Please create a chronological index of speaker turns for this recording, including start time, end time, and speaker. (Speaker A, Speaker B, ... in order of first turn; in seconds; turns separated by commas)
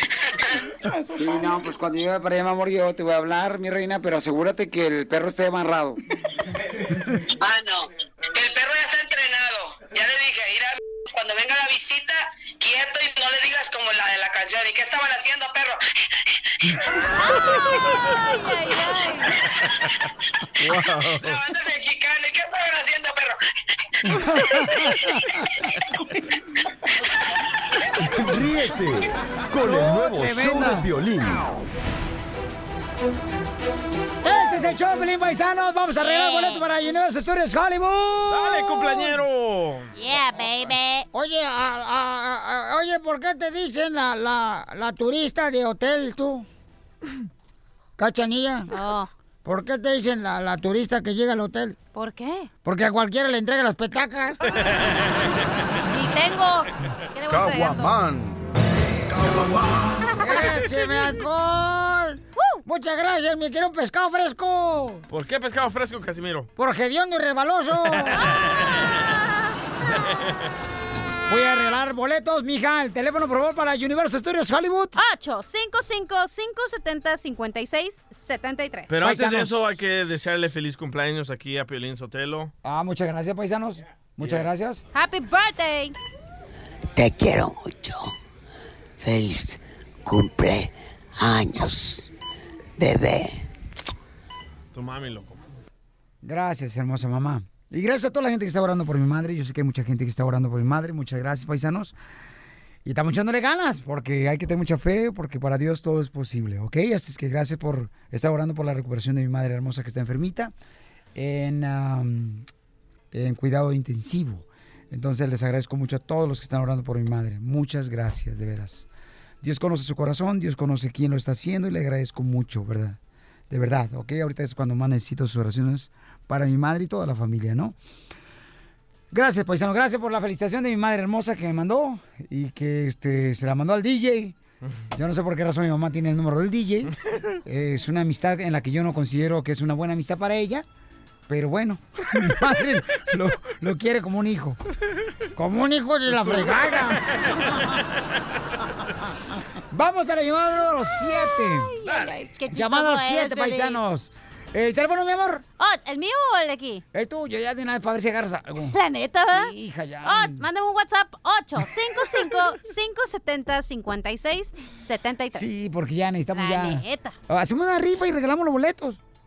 Speaker A: 0.8-1.7, Speaker B: 1.1-6.0, Speaker C: 7.4-15.8, Speaker D: 17.2-19.4, Speaker E: 20.6-21.4, Speaker C: 21.2-23.4, Speaker B: 24.1-25.1, Speaker F: 28.1-31.5, Speaker B: 29.6-30.9, Speaker B: 34.2-38.9, Speaker D: 36.0-36.7, Speaker E: 38.3-39.9, Speaker D: 40.0-41.1, Speaker B: 41.1-46.5, Speaker B: 48.0-48.7, Speaker D: 48.7-49.1, Speaker B: 49.5-51.8, Speaker D: 52.0-52.5, Speaker B: 52.6-54.4, Speaker D: 55.9-58.0, Speaker F: 59.1-59.5, Speaker B: 60.2-65.0, Speaker D: 60.2-61.2, Speaker E: 65.1-66.5, Speaker B: 66.6-68.2, Speaker B: 71.3-75.0, Speaker D: 75.0-78.9, Speaker E: 78.9-82.5, Speaker B: 79.0-79.5, Speaker B: 82.6-84.8, Speaker E: 84.2-84.5, Speaker D: 84.9-86.0, Speaker A: 87.0-88.1, Speaker A: 89.0-92.1, Speaker A: 92.8-93.4, Speaker E: 94.7-95.4, Speaker B: 96.2-102.0, Speaker B: 102.8-110.5, Speaker B: 111.2-112.5, Speaker B: 113.1-118.9, Speaker B: 119.4-123.0, Speaker B: 123.5-127.8, Speaker B: 129.1-134.4, Speaker B: 134.9-136.9, Speaker B: 137.4-140.7, Speaker B: 141.3-144.6, Speaker B: 145.4-147.0, Speaker E: 146.1-146.9, Speaker B: 149.7-151.7, Speaker D: 151.4-153.8, Speaker E: 151.9-152.1, Speaker B: 152.5-155.4, Speaker D: 155.6-156.8, Speaker B: 156.9-160.4, Speaker D: 158.7-159.5, Speaker D: 160.0-165.4, Speaker B: 165.3-169.0, Speaker D: 166.3-167.2